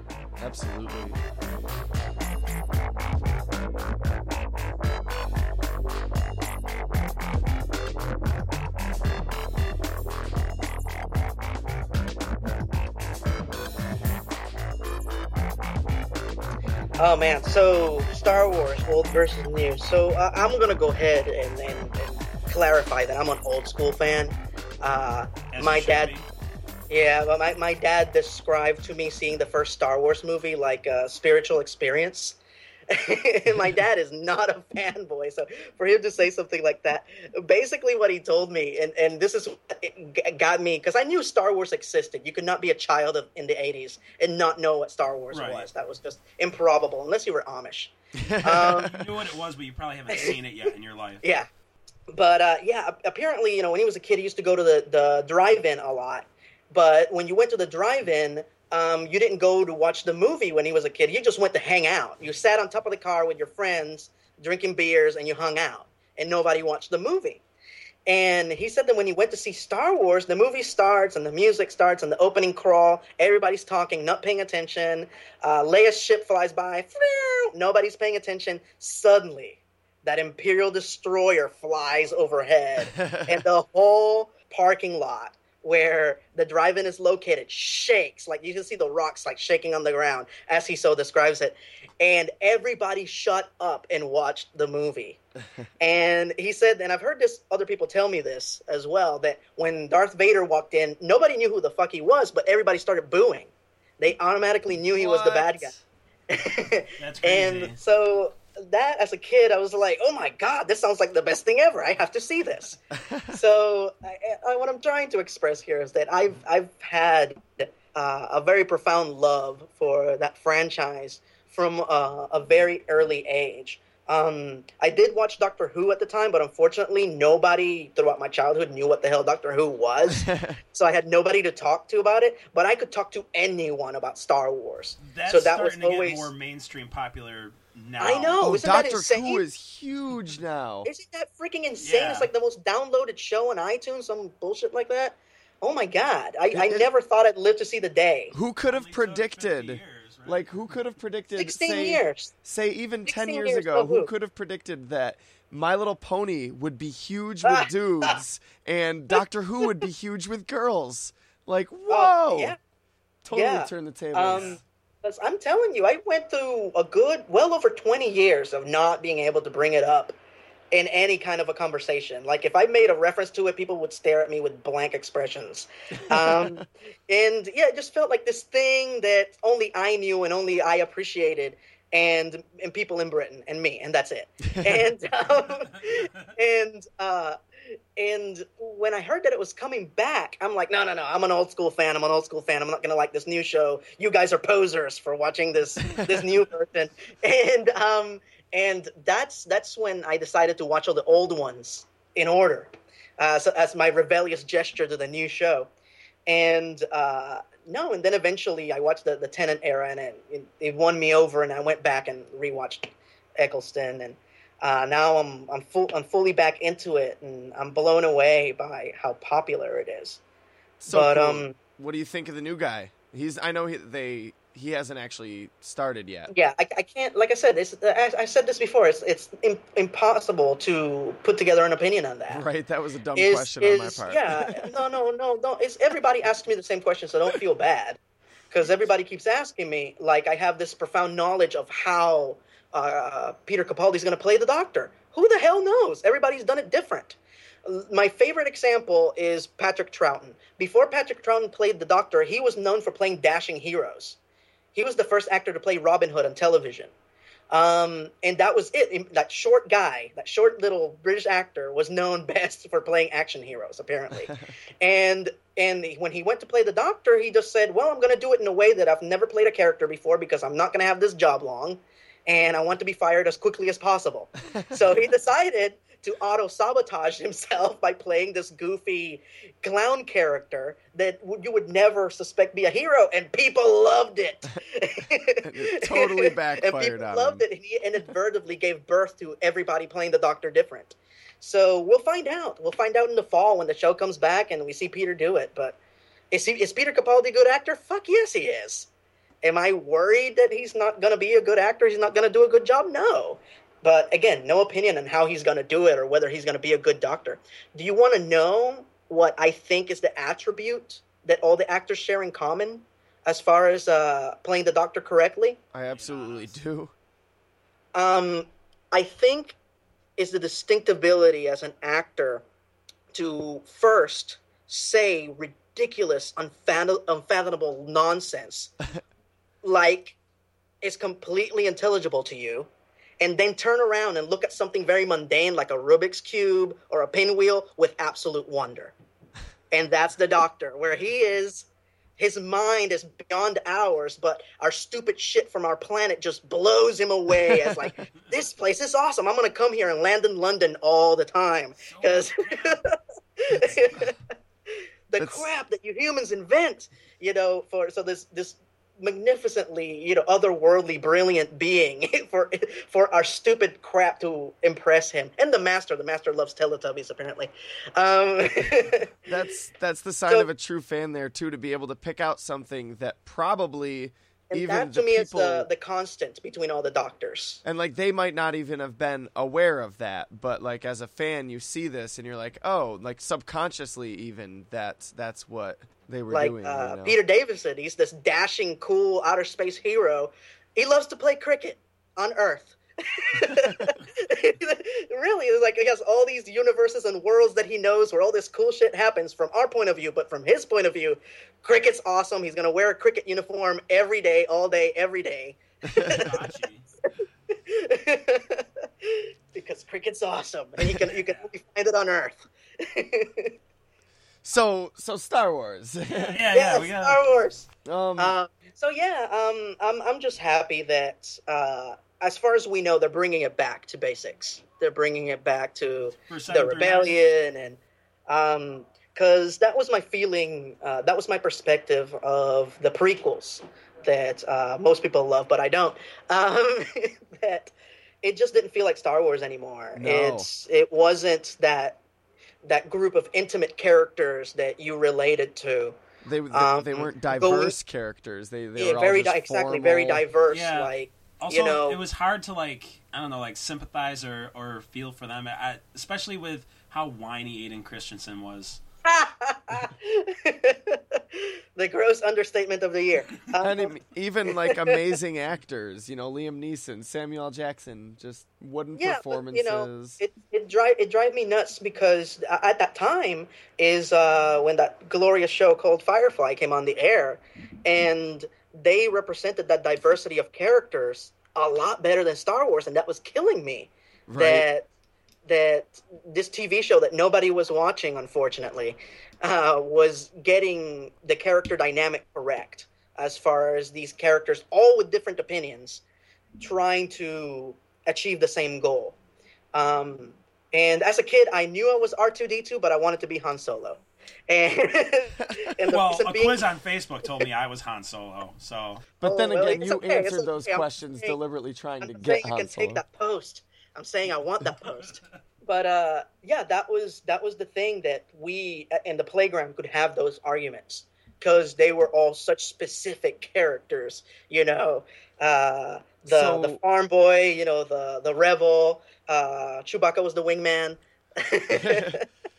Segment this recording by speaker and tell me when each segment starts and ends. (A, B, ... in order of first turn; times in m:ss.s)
0:00.4-0:01.2 A
0:17.0-0:26.1 B
0:25.5-0:26.3 C
0:26.9-0:32.4 B
0:32.9-0:48.9 B
0:45.3-0:45.7 C
0:48.1-0:49.1 A
0:48.8-0:51.2 C
0:50.1-0:50.4 B
0:51.2-0:51.5 B
0:52.1-1:07.4 B
1:08.1-1:35.2 B
1:23.0-1:23.2 A
1:35.8-1:45.7 B
1:45.0-1:45.8 A
1:46.3-2:16.3 B
1:47.0-1:47.8 C
2:10.1-2:10.6 A
2:15.0-2:18.4 C
2:18.0-2:19.4 B
2:18.4-2:20.9 A
2:20.8-2:28.3 B
2:21.8-2:22.3 C
2:26.5-2:26.9 A
2:28.3-2:42.6 A
2:28.6-2:30.8 C
2:31.4-2:32.3 B
2:33.0-2:34.1 B
2:37.4-2:38.2 B
2:41.9-2:42.6 B
2:43.2-2:44.6 A
2:43.3-2:50.2 B
2:44.3-2:44.6 C
2:50.7-3:25.7 B
2:56.0-2:56.6 A
3:04.5-3:04.8 A
3:26.3-3:40.2 B
3:40.8-3:46.3 A
3:40.9-3:41.5 B
3:46.3-3:52.4 B
3:52.3-3:54.7 A
3:53.2-3:58.0 B
3:58.5-4:14.2 B
4:14.7-4:16.9 B
4:17.5-4:55.8 B
4:45.4-4:47.4 A
4:56.3-4:58.9 B
4:59.4-5:15.6 B
5:15.7-5:16.9 A
5:15.9-5:16.5 C
5:17.9-5:19.6 B
5:20.2-5:22.4 B
5:23.1-5:28.7 B
5:29.6-5:30.2 B
5:30.8-5:32.7 B
5:33.2-5:38.9 B
5:39.7-5:41.7 B
5:42.2-5:54.2 B
5:47.5-5:47.8 A
5:51.8-5:52.8 C
5:55.1-6:09.2 B
5:55.2-5:55.5 A
6:09.3-6:15.7 A
6:14.5-6:17.6 B
6:17.6-6:27.2 A
6:26.3-6:46.3 B
6:46.1-6:46.9 C
6:47.5-6:53.5 B
6:51.1-6:51.5 C
6:54.4-6:56.4 A
6:56.1-6:57.2 C
6:56.5-7:22.0 B
6:57.8-6:58.3 A
7:06.3-7:07.2 C
7:19.9-7:20.5 A
7:22.6-7:26.0 B
7:26.2-7:30.2 A
7:26.5-7:27.7 B
7:28.8-7:32.0 B
7:30.5-7:38.8 C
7:39.0-7:44.0 B
7:43.6-7:50.2 A
7:44.5-7:45.1 B
7:49.0-8:04.9 B
8:04.3-8:04.6 A
8:05.4-8:16.0 B
8:16.6-8:19.2 B
8:19.7-8:26.6 B
8:25.9-8:29.1 C
8:29.2-8:33.0 A
8:29.2-8:31.4 B
8:32.0-8:52.2 B
8:46.2-8:46.8 A
8:51.7-8:52.2 A